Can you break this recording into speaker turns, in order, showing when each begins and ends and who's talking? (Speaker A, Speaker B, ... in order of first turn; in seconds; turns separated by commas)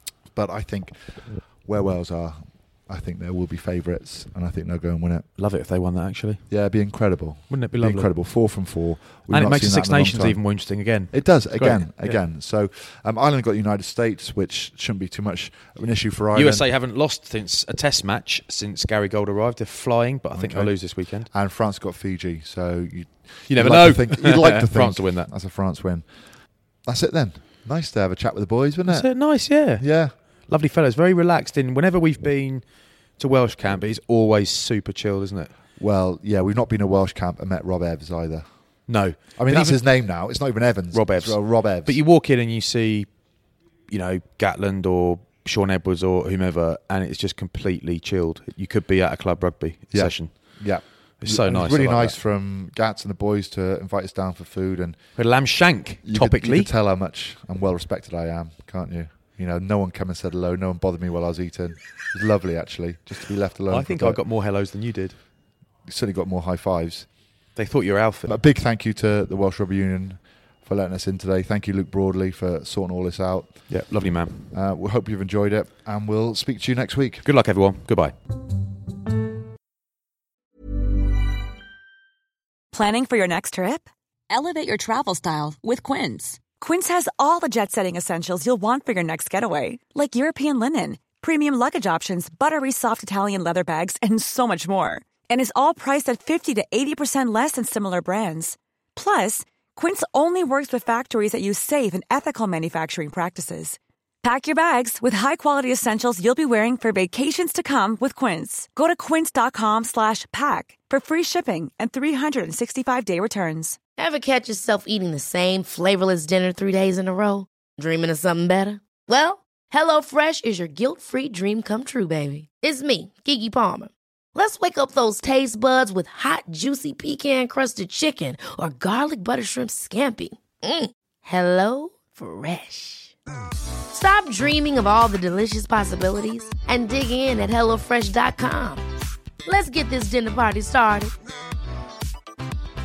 Speaker A: 0.3-5.3, Speaker B: 5.4-6.4, Speaker A: 6.5-16.7, Speaker B: 7.5-8.1, Speaker B: 9.3-12.2, Speaker B: 16.3-21.3, Speaker A: 20.3-26.1, Speaker B: 23.5-25.3, Speaker A: 26.9-30.2, Speaker B: 28.9-35.5, Speaker A: 35.8-38.5, Speaker B: 38.9-39.9, Speaker A: 39.4-42.0, Speaker B: 40.9-43.1, Speaker B: 43.9-50.3, Speaker A: 49.9-55.2, Speaker B: 51.2-52.2, Speaker B: 55.2-56.7, Speaker A: 56.0-64.2, Speaker B: 63.7-65.2, Speaker A: 65.9-67.1, Speaker B: 67.6-68.4, Speaker A: 68.3-73.7, Speaker B: 73.7-74.5, Speaker A: 74.5-77.2, Speaker B: 77.2-78.2, Speaker C: 82.7-83.9, Speaker D: 84.3-86.5, Speaker C: 86.5-113.8, Speaker E: 114.0-133.2, Speaker E: 133.9-138.8, Speaker E: 139.5-141.1